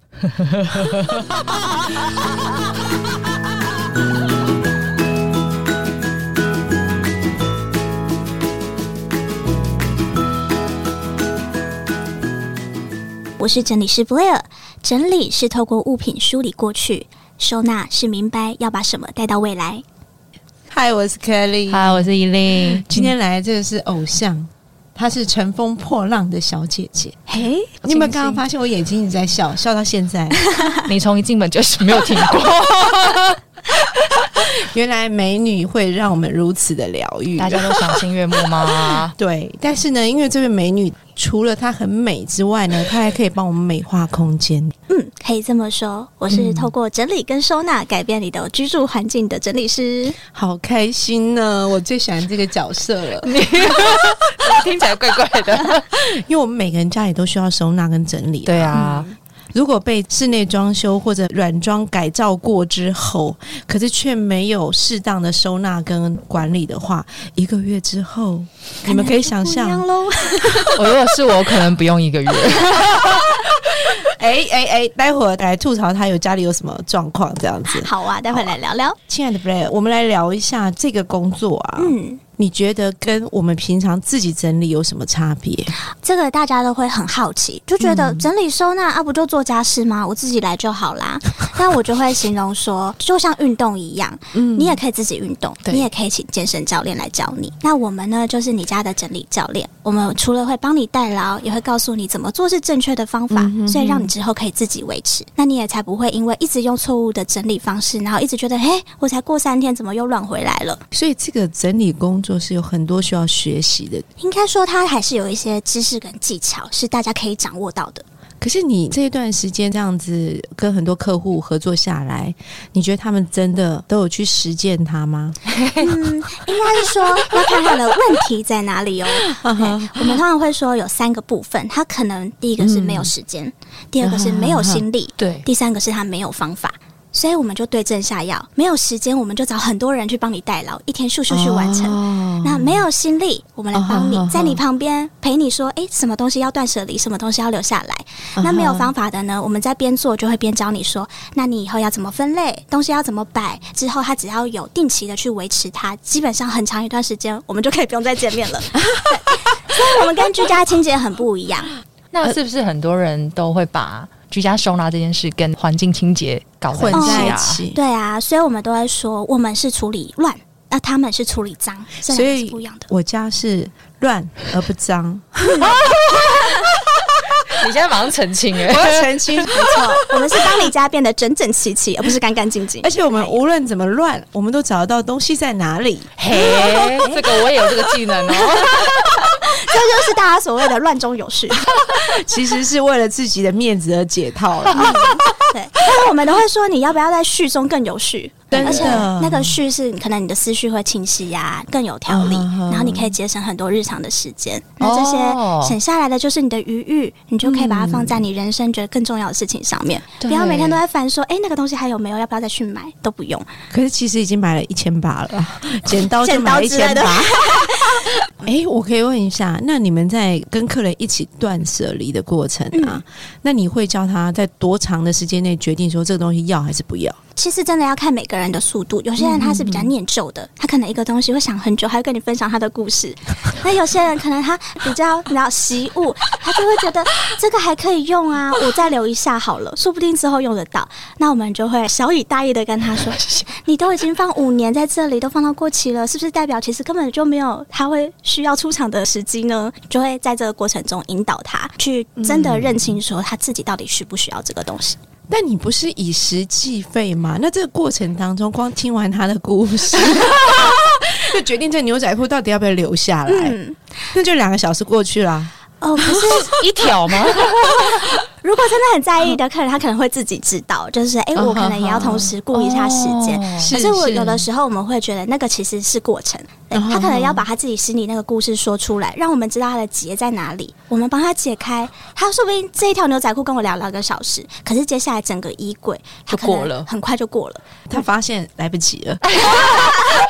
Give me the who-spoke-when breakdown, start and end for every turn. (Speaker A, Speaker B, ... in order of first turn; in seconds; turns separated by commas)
Speaker A: 0.5-0.9, Speaker B: 13.4-19.8, Speaker C: 20.7-27.2, Speaker A: 21.7-23.1, Speaker B: 27.3-27.7, Speaker C: 27.8-30.4, Speaker A: 27.9-28.4, Speaker B: 30.5-30.8, Speaker A: 30.9-33.4, Speaker C: 34.2-38.0, Speaker A: 37.4-39.1, Speaker C: 38.6-44.7, Speaker B: 44.9-50.2, Speaker C: 50.3-54.1, Speaker A: 53.2-55.9, Speaker C: 56.0-69.9, Speaker A: 58.5-59.1, Speaker B: 68.8-70.8, Speaker A: 70.7-73.3, Speaker C: 72.9-78.6, Speaker B: 77.7-79.0, Speaker C: 79.1-85.8, Speaker B: 81.8-82.2, Speaker B: 86.0-110.8, Speaker C: 87.8-88.3, Speaker C: 94.3-94.8, Speaker C: 103.3-104.1, Speaker C: 110.9-114.0, Speaker B: 114.2-118.0, Speaker C: 118.4-125.4, Speaker A: 125.5-125.9, Speaker B: 125.8-161.7, Speaker C: 129.3-130.2, Speaker C: 132.6-133.1, Speaker C: 134.0-134.8, Speaker A: 135.2-135.4, Speaker C: 141.3-142.8, Speaker C: 143.7-144.6, Speaker C: 148.4-148.9, Speaker C: 158.8-159.8, Speaker A: 162.1-167.6, Speaker C: 166.7-167.8, Speaker B: 166.9-172.9, Speaker C: 172.1-176.6, Speaker A: 175.6-176.7, Speaker A: 177.5-179.5, Speaker C: 178.6-179.9, Speaker B: 179.5-183.3, Speaker C: 182.8-186.1, Speaker A: 186.2-188.9, Speaker B: 186.4-187.3, Speaker B: 188.7-192.1, Speaker C: 191.9-195.3, Speaker B: 194.8-213.5, Speaker C: 198.5-199.6, Speaker A: 198.6-199.0, Speaker C: 202.1-203.1, Speaker A: 204.8-205.8, Speaker C: 207.4-208.2, Speaker A: 210.2-210.8, Speaker C: 213.7-217.8, Speaker B: 216.2-218.2, Speaker C: 218.4-227.2, Speaker B: 222.7-223.0, Speaker B: 227.4-255.0, Speaker C: 229.2-229.9, Speaker C: 252.2-253.0, Speaker C: 255.3-263.6, Speaker B: 263.3-263.8, Speaker C: 264.1-265.5, Speaker B: 265.8-266.9, Speaker C: 266.1-266.4, Speaker A: 266.1-267.5, Speaker B: 267.4-287.6, Speaker C: 267.4-268.1, Speaker C: 271.4-272.3, Speaker A: 272.5-273.7, Speaker C: 273.6-274.4, Speaker C: 276.7-277.5, Speaker A: 286.3-286.9, Speaker C: 287.9-289.2, Speaker A: 289.3-289.9